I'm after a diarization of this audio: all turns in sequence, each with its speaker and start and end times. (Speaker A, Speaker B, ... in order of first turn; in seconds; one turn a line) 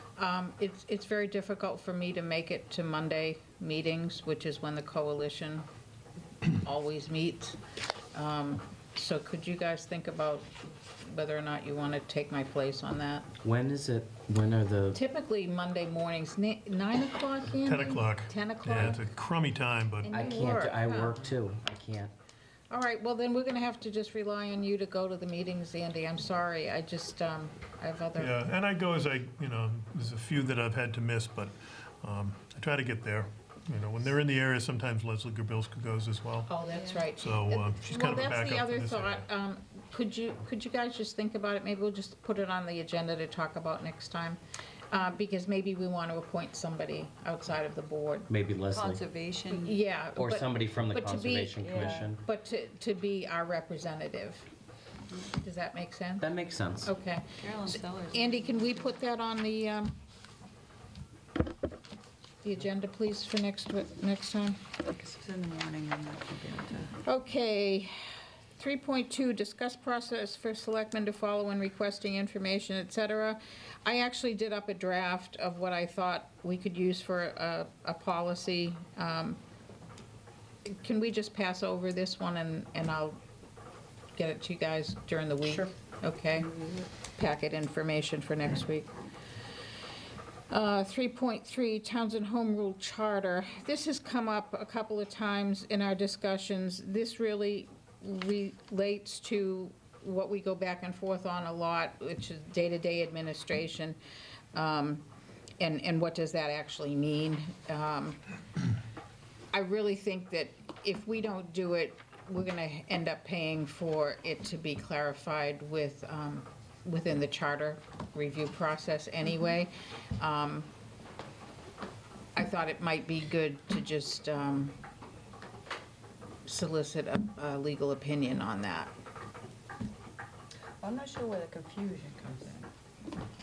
Speaker A: 0.2-5.7
Speaker A: 6.5-7.6
Speaker A: 8.1-10.5
Speaker A: 11.0-13.3
Speaker B: 13.4-15.0
Speaker A: 14.9-19.0
Speaker C: 17.6-20.2
Speaker A: 20.0-21.2
Speaker B: 20.1-22.1
Speaker A: 22.7-28.4
Speaker C: 28.2-36.5
Speaker A: 36.5-44.4
Speaker C: 37.1-39.3
Speaker A: 44.9-48.3
Speaker B: 48.3-49.0
Speaker D: 48.7-49.8
Speaker A: 49.5-54.5
Speaker B: 50.2-52.2
Speaker D: 51.6-52.1
Speaker A: 55.4-56.3
Speaker B: 56.2-56.9
Speaker A: 56.9-60.0
Speaker D: 57.4-59.0
Speaker A: 62.4-64.6
Speaker D: 64.8-67.0
Speaker A: 67.0-68.0
Speaker A: 68.6-79.4
Speaker A: 80.7-83.2
Speaker A: 84.2-88.9
Speaker A: 90.5-104.0
Speaker A: 104.5-105.0
Speaker A: 105.6-108.2
Speaker A: 109.5-120.7
Speaker A: 122.3-124.8
Speaker A: 126.5-128.9
Speaker D: 130.8-132.7